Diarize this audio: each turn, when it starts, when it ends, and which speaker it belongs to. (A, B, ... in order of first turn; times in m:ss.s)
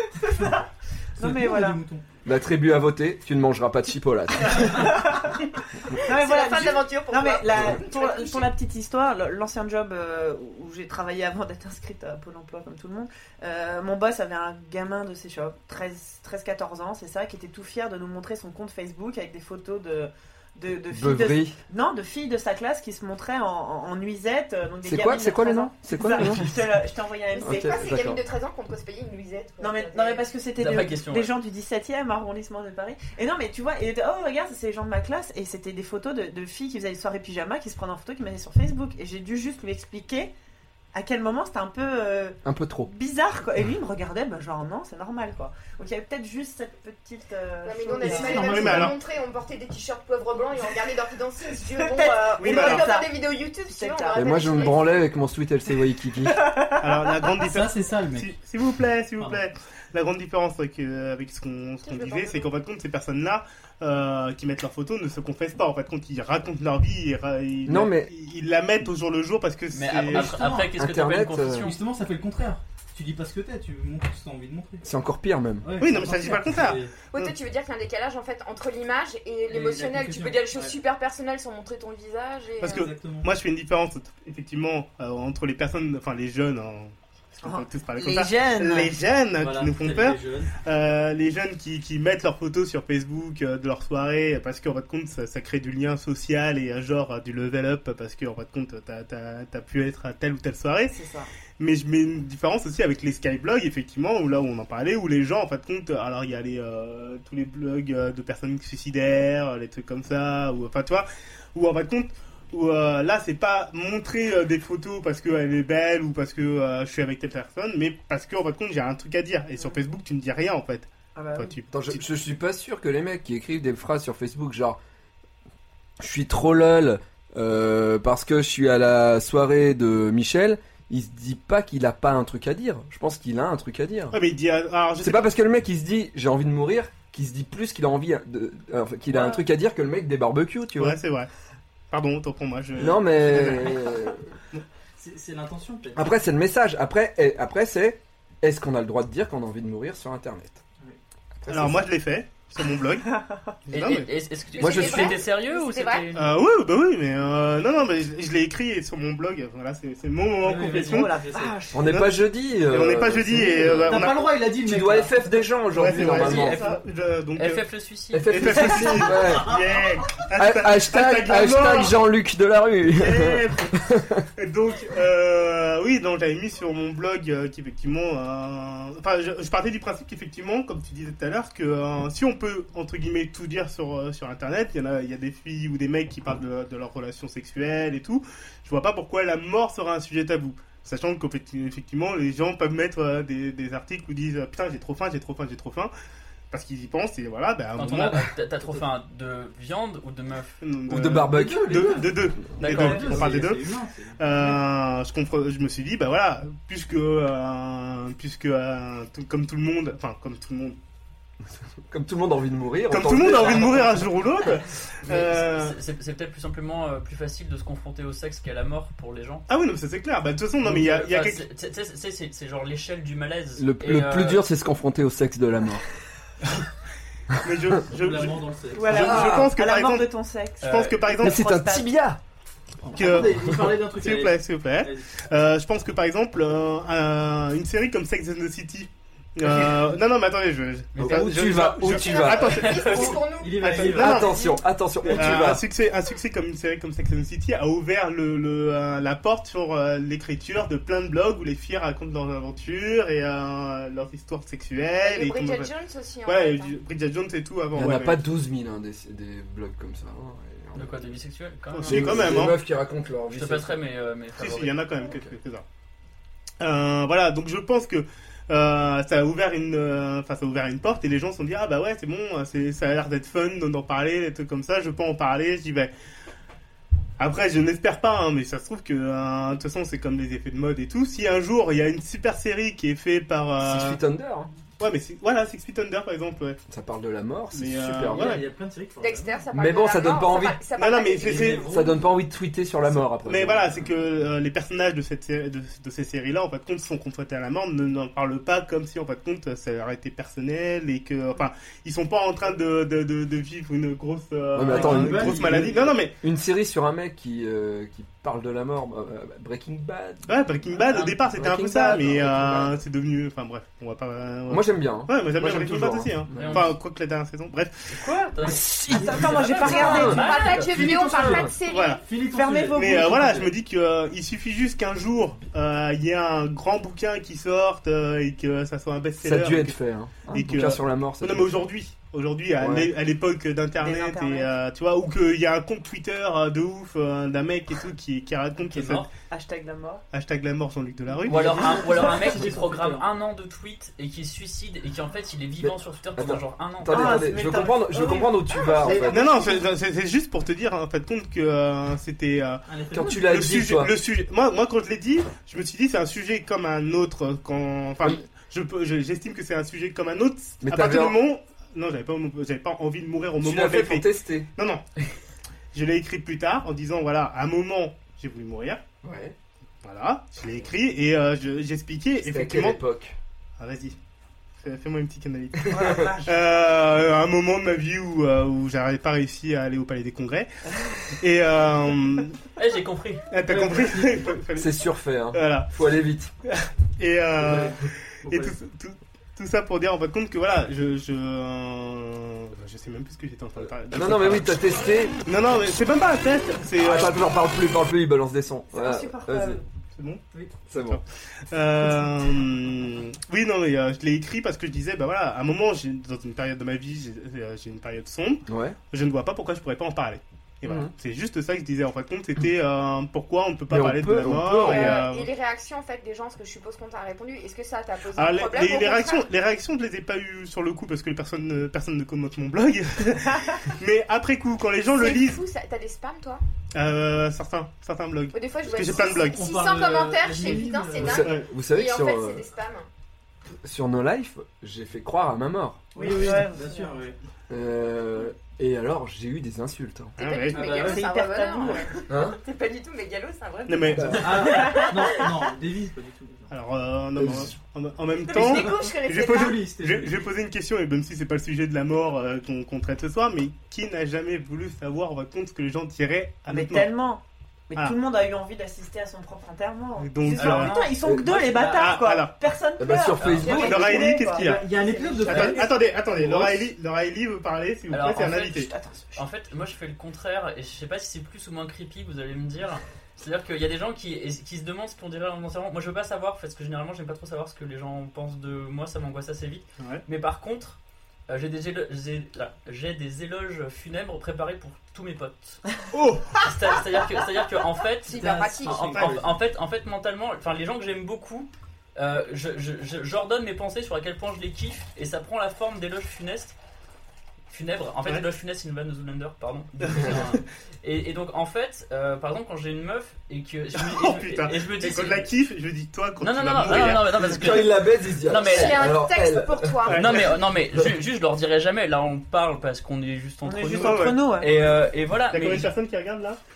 0:00.1-0:00.6 A
0:01.2-0:01.8 A
0:01.2-0:02.0 B
0:02.2-0:05.0 C
0:04.6-0:27.9 A
0:06.0-0:08.5 D
0:20.9-0:21.6 C
0:24.8-0:26.6 C
0:27.4-0:30.3 D
0:27.4-0:28.2 C
0:29.6-0:40.3 A
0:30.6-0:31.3 E
0:40.9-0:48.7 A
0:42.4-0:42.9 C
0:47.6-0:55.0 D
0:48.0-0:49.0 B
0:48.2-0:49.0 F
0:51.6-0:53.2 A
0:52.4-0:52.9 F
0:53.7-0:54.6 A
0:54.1-0:56.4 C
0:56.2-0:57.2 A
0:56.8-1:10.4 F
0:57.5-0:58.4 B
1:01.8-1:02.5 D
1:07.7-1:08.1 C
1:09.7-1:11.8 E
1:10.1-1:10.7 B
1:10.8-1:11.7 C
1:11.6-1:14.8 B
1:14.8-1:15.7 C
1:15.6-1:16.9 B
1:15.8-1:17.3 F
1:17.1-1:22.9 D
1:19.5-1:20.8 B
1:22.6-1:41.0 F
1:22.7-1:23.3 B
1:27.4-1:28.9 A
1:29.4-1:30.5 B
1:40.9-1:41.3 A
1:41.6-2:02.0 F
2:01.2-2:01.5 A
2:01.7-2:04.8 C
2:06.0-2:14.2 C
2:14.1-2:15.3 F
2:15.0-2:21.0 C
2:20.8-2:21.3 F
2:21.9-2:24.0 F
2:22.8-2:24.3 C
2:23.3-2:23.6 B
2:25.0-2:26.1 B
2:26.0-2:30.6 C
2:31.4-2:31.9 C
2:31.5-2:33.1 F
2:33.0-2:33.4 A
2:33.7-2:34.1 F
2:33.7-2:36.3 E
2:34.5-2:36.2 D
2:34.6-2:35.2 C
2:36.2-2:41.1 F
2:40.4-2:41.6 B
2:40.7-2:41.9 A
2:41.7-2:46.6 C
2:41.9-2:44.3 F
2:43.9-2:45.1 B
2:45.7-2:47.7 F
2:45.9-2:46.8 E
2:47.3-2:48.8 E
2:48.1-2:49.5 C
2:48.2-2:52.0 F
2:49.1-2:49.5 B
2:50.4-2:54.2 C
2:52.9-2:53.8 F
2:54.4-3:15.9 F
3:16.5-3:18.3 F
3:17.8-3:20.6 E
3:20.6-3:23.7 F
3:20.9-3:22.6 C
3:21.2-3:24.6 B
3:22.6-3:23.4 E
3:24.2-3:30.8 F
3:31.9-3:34.0 C
3:32.9-3:35.8 F
3:33.1-3:34.1 E
3:35.1-3:39.5 E
3:39.5-3:41.4 F
3:40.6-3:44.4 E
3:43.6-3:45.8 C
3:47.4-3:50.1 F
3:47.9-3:49.1 B
3:48.8-3:51.9 A
3:48.9-3:49.5 C
3:50.6-3:51.0 E
3:50.6-3:51.4 F
3:51.2-3:52.2 C
3:52.8-3:55.1 B
3:53.0-4:04.4 F
4:01.0-4:03.2 E
4:01.0-4:03.1 C
4:01.8-4:03.9 D
4:03.3-4:04.3 B
4:03.9-4:05.6 C
4:05.0-4:15.7 F
4:15.0-4:16.8 D
4:16.2-4:18.2 F
4:17.8-4:21.0 C
4:20.8-4:22.6 E
4:21.7-4:22.6 F
4:21.8-4:23.8 C
4:23.3-4:24.9 E
4:24.4-4:25.6 F
4:25.1-4:25.3 C
4:26.6-4:35.9 F
4:37.2-4:44.0 F
4:43.6-4:44.5 C
4:44.8-4:46.6 F
4:46.7-4:48.4 C
4:47.5-4:48.4 F
4:48.0-4:49.4 B
4:49.0-4:51.6 D
4:49.5-4:50.6 C
4:50.8-4:51.7 F
4:51.2-4:52.1 B
4:51.4-4:53.9 C
4:53.2-5:06.2 F
5:04.6-5:12.8 C
5:04.7-5:05.9 B
5:10.3-5:18.0 F
5:14.5-5:16.7 C
5:16.4-5:16.8 E
5:17.9-5:20.7 E
5:18.4-5:21.5 C
5:18.9-5:20.3 A
5:19.8-5:22.0 D
5:20.6-5:23.5 B
5:21.7-5:22.0 F
5:22.3-5:23.5 A
5:22.7-5:29.8 F
5:29.2-5:31.7 C
5:30.3-5:39.1 F
5:32.6-5:32.9 C
5:33.8-5:34.5 A
5:38.6-5:39.1 E
5:39.3-5:40.0 A
5:40.1-5:41.8 F
5:41.2-5:43.1 B
5:41.3-5:47.3 E
5:45.6-5:49.3 C
5:46.9-5:49.1 A
5:48.8-5:49.6 B
5:49.0-5:52.6 F
5:52.7-5:53.4 B
5:52.9-5:54.0 C
5:53.2-6:04.8 F
6:00.6-6:01.2 C
6:03.4-6:04.5 C
6:05.7-6:08.8 F
6:09.0-6:09.4 C
6:09.8-6:12.8 F
6:12.2-6:13.2 C
6:13.6-6:14.0 F
6:14.6-6:20.5 F
6:15.7-6:16.3 A
6:21.1-6:22.4 F
6:22.6-6:23.2 E
6:23.3-6:24.7 F
6:23.5-6:24.3 B
6:24.6-6:26.3 C
6:25.3-6:25.7 F
6:26.4-6:34.6 F
6:27.4-6:28.6 B
6:33.6-6:35.2 C
6:35.3-6:37.2 F
6:36.8-6:39.6 C
6:38.7-6:39.6 A
6:40.0-6:55.3 F
6:40.7-6:41.0 C
6:48.5-6:48.8 C
6:50.6-6:50.9 C
6:53.7-6:55.0 C
6:54.6-6:59.3 D
6:58.1-7:05.4 F
7:04.9-7:06.4 D
7:06.7-7:09.4 F
7:08.3-7:12.9 D
7:09.0-7:11.3 B
7:11.0-7:12.5 C
7:11.2-7:11.5 F
7:13.6-7:15.9 C
7:16.0-7:17.2 B
7:16.0-7:16.9 A
7:17.5-7:20.2 C
7:20.2-7:25.2 D
7:20.2-7:21.0 F
7:20.5-7:21.1 B
7:20.6-7:21.9 A
7:22.1-7:22.4 C
7:23.7-7:24.4 F
7:23.9-7:24.4 C
7:24.2-7:26.5 B
7:24.5-7:24.9 A
7:26.5-7:36.9 F
7:27.2-7:27.5 C
7:28.2-7:29.6 D
7:28.3-7:30.2 B
7:36.5-7:45.8 A
7:40.0-7:40.9 F
7:40.3-7:42.0 B
7:41.0-7:41.3 C
7:41.5-7:42.4 F
7:42.8-7:43.7 C
7:43.2-7:43.6 E
7:43.4-7:44.2 D
7:43.4-7:44.6 F
7:44.3-7:45.7 B
7:45.2-7:48.7 F
7:45.3-7:45.6 E
7:46.2-7:46.6 B
7:47.9-8:05.6 E
7:48.6-7:49.2 A
8:05.9-8:06.4 F
8:06.4-8:16.6 E
8:08.1-8:09.0 D
8:08.1-8:09.3 B
8:17.5-8:25.3 E
8:19.8-8:20.4 F
8:23.8-8:27.6 F
8:26.2-8:29.0 E
8:26.8-8:29.9 C
8:28.4-8:30.3 D
8:29.9-8:30.3 F
8:29.9-8:35.7 E
8:33.4-8:34.5 A
8:33.8-8:34.7 F
8:35.3-8:36.4 F